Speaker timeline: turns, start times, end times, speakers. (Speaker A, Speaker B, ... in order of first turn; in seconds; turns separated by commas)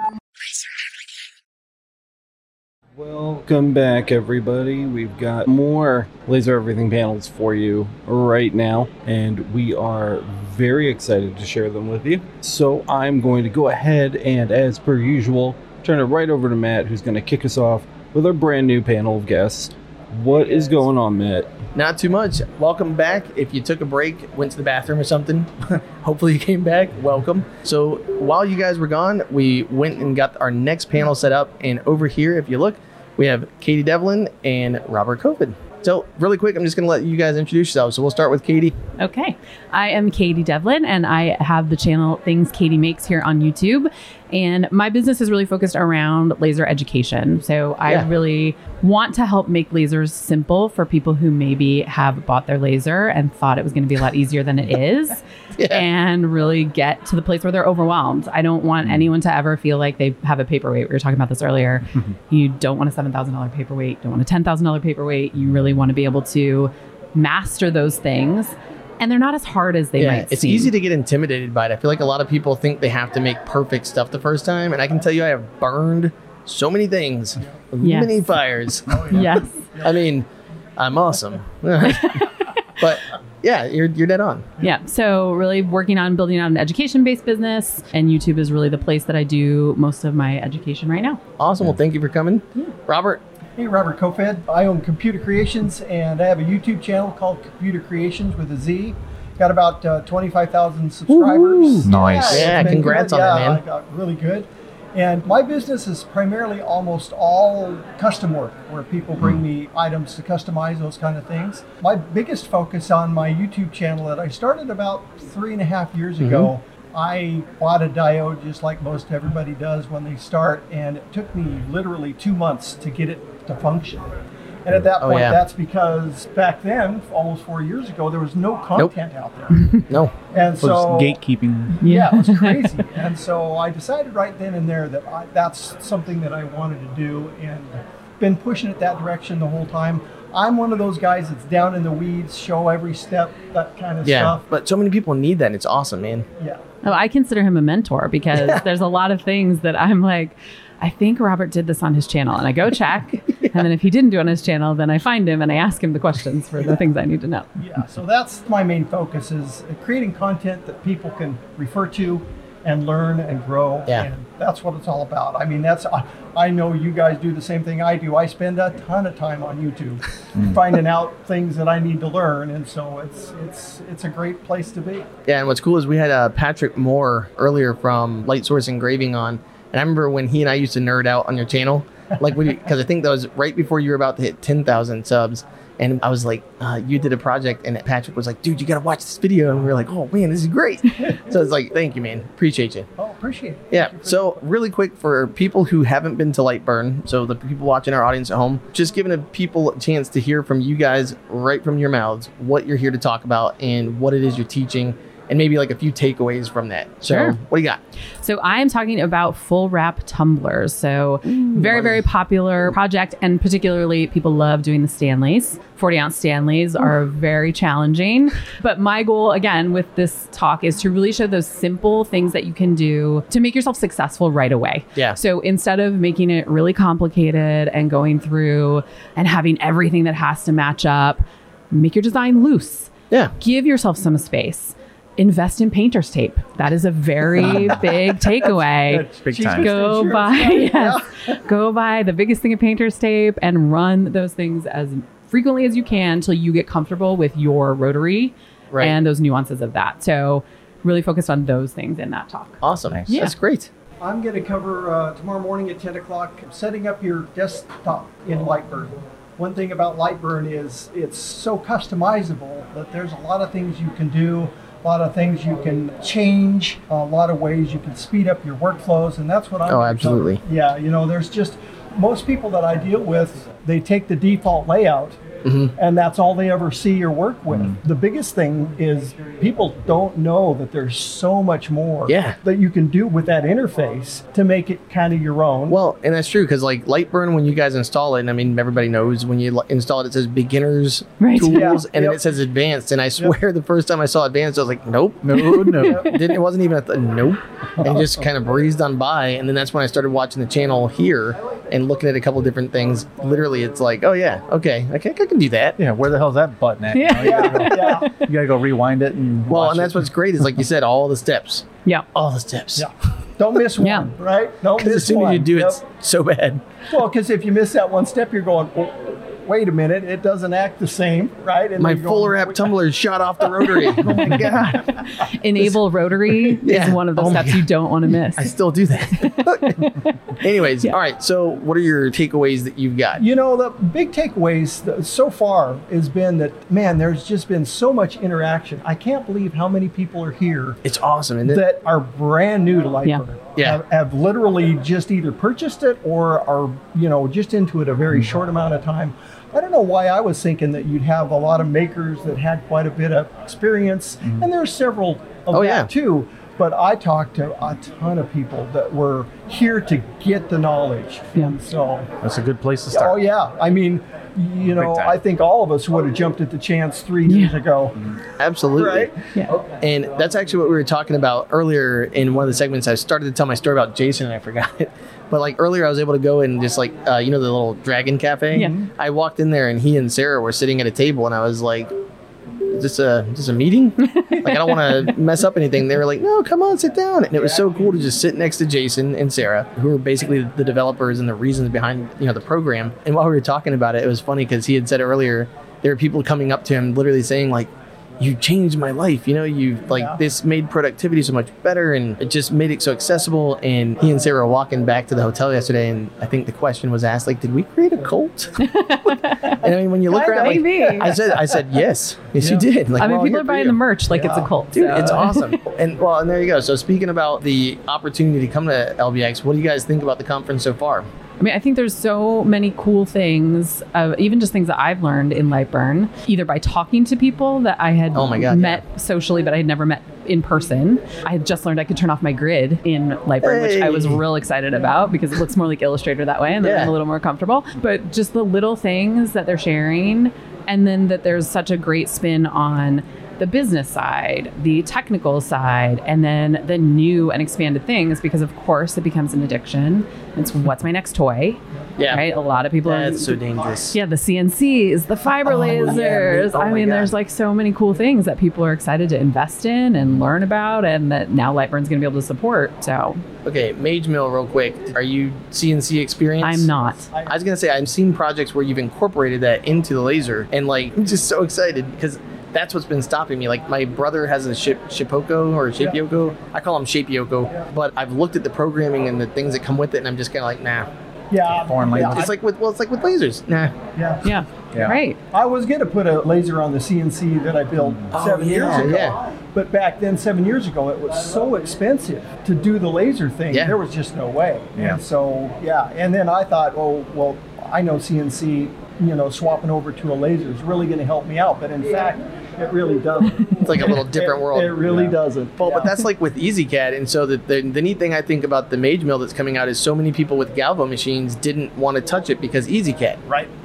Speaker A: 3.0-21.5, Speaker B: 21.7-38.7, Speaker C: 39.0-70.7, Speaker B: 55.6-55.8, Speaker B: 70.0-79.1, Speaker C: 77.8-78.2, Speaker D: 78.9-80.1, Speaker C: 79.1-79.7, Speaker B: 79.8-84.5, Speaker C: 81.8-82.8, Speaker C: 84.6-91.2, Speaker B: 91.4-93.2, Speaker D: 93.6-124.1, Speaker B: 101.1-103.6, Speaker E: 101.8-102.8, Speaker B: 116.2-116.5, Speaker D: 124.6-129.7, Speaker B: 125.0-125.4, Speaker B: 129.9-130.1, Speaker D: 130.3-144.4, Speaker E: 130.6-131.8, Speaker C: 131.8-132.8, Speaker B: 144.0-146.2, Speaker C: 146.8-157.5, Speaker D: 157.6-175.1, Speaker B: 175.2-192.9, Speaker D: 193.0-194.4, Speaker B: 193.7-207.8, Speaker C: 207.0-207.4, Speaker C: 208.2-253.3, Speaker B: 211.3-212.0, Speaker D: 237.4-237.8, Speaker E: 237.4-237.7, Speaker D: 238.4-241.4, Speaker E: 239.2-239.7, Speaker B: 252.6-253.7, Speaker D: 254.0-275.2, Speaker B: 269.6-270.4, Speaker B: 275.4-275.7, Speaker D: 275.8-285.8, Speaker E: 277.5-277.8, Speaker B: 282.1-282.4, Speaker B: 285.7-305.8, Speaker C: 291.2-291.7, Speaker D: 291.4-292.4, Speaker E: 295.2-296.2, Speaker C: 295.7-296.0, Speaker E: 305.8-310.6, Speaker C: 306.9-308.2, Speaker D: 307.2-308.1, Speaker B: 309.5-312.9, Speaker D: 312.8-315.8, Speaker C: 313.8-314.1, Speaker B: 314.7-316.6, Speaker D: 316.9-322.6, Speaker B: 321.8-325.2, Speaker D: 323.9-325.0, Speaker C: 325.0-328.5, Speaker B: 326.6-327.6, Speaker B: 328.4-329.7, Speaker C: 329.1-330.1, Speaker B: 330.4-333.2, Speaker D: 333.2-340.8, Speaker B: 340.8-341.6, Speaker D: 341.4-362.1, Speaker B: 343.5-343.8, Speaker B: 355.5-355.9, Speaker E: 362.2-363.2, Speaker D: 362.9-368.1, Speaker E: 364.7-365.1, Speaker C: 367.2-367.6, Speaker B: 368.4-369.1, Speaker D: 368.8-369.2, Speaker B: 369.8-381.9, Speaker C: 378.5-378.8, Speaker B: 382.6-408.6, Speaker C: 384.0-385.1, Speaker D: 387.4-387.6, Speaker D: 399.9-400.2, Speaker C: 408.6-409.6, Speaker B: 409.5-421.1, Speaker D: 410.1-411.8, Speaker C: 410.3-411.2, Speaker D: 412.4-412.7, Speaker C: 413.0-415.6, Speaker D: 414.1-414.5, Speaker C: 421.4-463.2, Speaker B: 428.1-428.8, Speaker B: 433.4-434.2, Speaker B: 436.6-436.9, Speaker B: 452.0-452.2, Speaker B: 452.8-453.9, Speaker B: 455.4-457.1, Speaker B: 463.4-466.7, Speaker C: 466.4-467.1, Speaker D: 467.1-467.4, Speaker B: 467.2-480.9, Speaker D: 481.3-482.3, Speaker E: 481.4-482.3, Speaker B: 482.0-483.7, Speaker D: 483.9-484.3, Speaker C: 484.2-485.2, Speaker E: 484.7-485.0, Speaker D: 485.3-505.9, Speaker E: 487.8-488.1, Speaker B: 488.1-489.2, Speaker B: 493.5-493.8, Speaker B: 503.6-513.2